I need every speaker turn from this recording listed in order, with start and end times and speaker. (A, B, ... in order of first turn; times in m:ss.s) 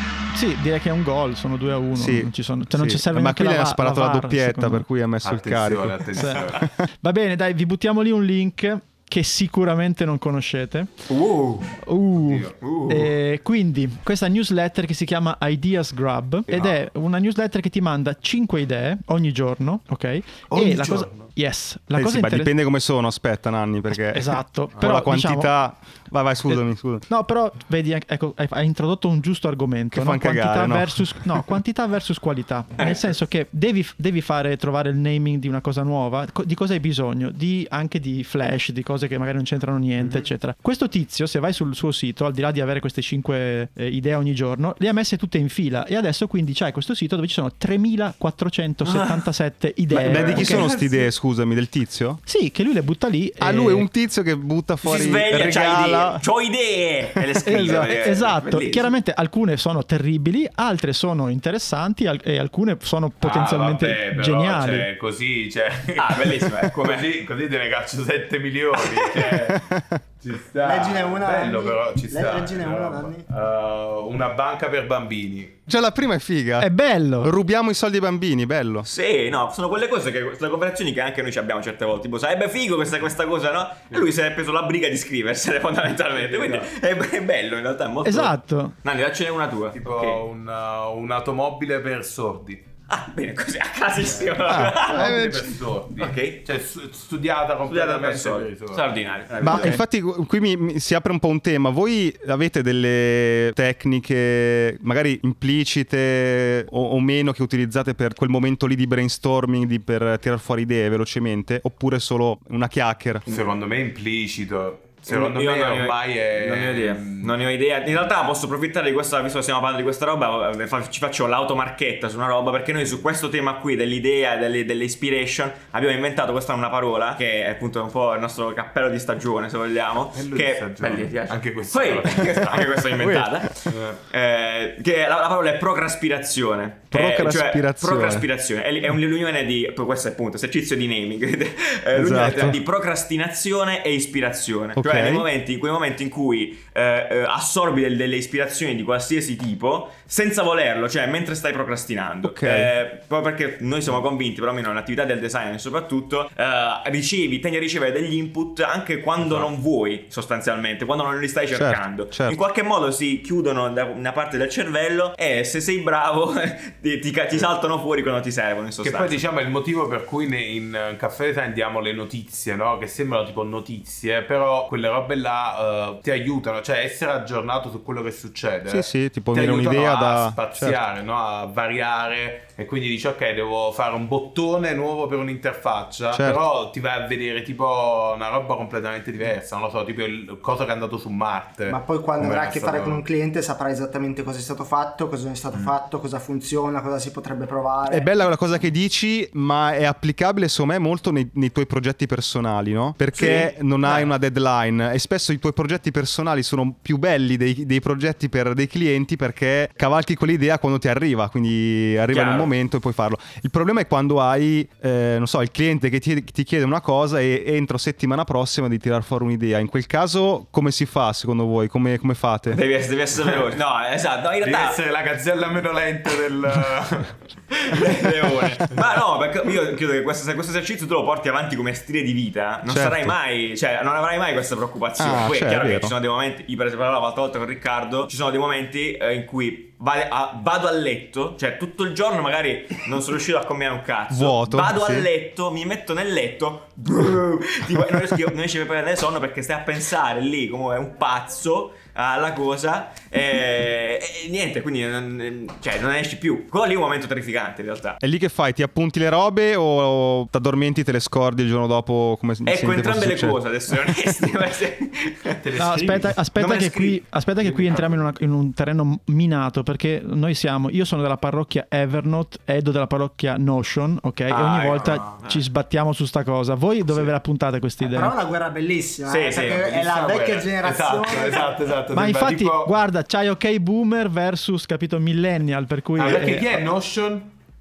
0:00.3-0:04.8 A
0:01.9-0:06.7 B
0:05.2-0:06.7 C
0:06.2-0:06.4 A
0:07.0-0:10.9 A
0:11.1-0:11.7 D
0:11.8-0:22.5 A
0:12.2-0:12.6 C
0:12.6-0:13.1 D
0:20.5-0:21.3 C
0:22.0-0:27.1 B
0:24.1-0:25.5 A
0:26.5-0:50.7 A
0:29.9-0:31.5 B
0:32.8-0:33.1 D
0:48.8-0:49.2 D
0:49.9-0:52.2 B
0:50.2-0:51.1 D
0:52.3-0:53.9 A
0:53.4-0:56.2 B
0:54.8-0:58.9 D
0:57.4-1:04.9 A
1:03.2-1:09.6 C
1:06.0-1:07.1 D
1:08.8-1:09.3 D
1:09.5-1:10.0 B
1:10.2-1:15.5 C
1:10.6-1:13.3 E
1:15.7-1:18.9 B
1:16.6-1:17.3 A
1:18.9-1:30.2 D
1:26.1-1:26.7 C
1:28.0-1:28.8 A
1:29.7-1:32.6 C
1:32.9-1:35.3 D
1:34.0-1:38.9 C
1:34.5-1:35.5 B
1:36.0-1:36.4 D
1:37.7-1:39.8 D
1:39.4-1:53.2 B
1:53.3-1:57.3 C
1:55.1-2:49.2 D
2:10.2-2:12.8 C
2:13.0-2:13.4 B
2:13.7-2:14.0 C
2:16.9-2:18.3 B
2:21.9-2:22.6 B
2:24.8-2:25.3 B
2:32.2-2:32.7 B
2:41.5-2:42.4 B
2:48.8-3:13.0 C
2:58.7-3:00.8 B
3:06.1-3:06.4 B
3:11.7-3:18.1 E
3:17.9-3:42.6 B
3:23.2-3:24.1 D
3:32.1-3:32.5 D
3:42.5-3:44.8 D
3:44.4-3:47.2 C
3:47.5-4:18.0 D
3:52.7-3:53.2 B
3:55.0-3:55.9 B
4:04.1-4:05.1 B
4:18.0-4:23.4 B
4:22.5-4:25.4 D
4:25.4-4:26.2 C
4:25.6-4:38.1 A
4:26.4-4:27.0 D
4:27.4-4:28.0 C
4:34.3-4:35.2 C
4:34.4-4:35.4 D
4:37.8-4:41.6 E
4:39.1-4:39.7 D
4:39.6-4:42.7 C
4:41.9-4:46.6 A
4:46.0-4:47.3 C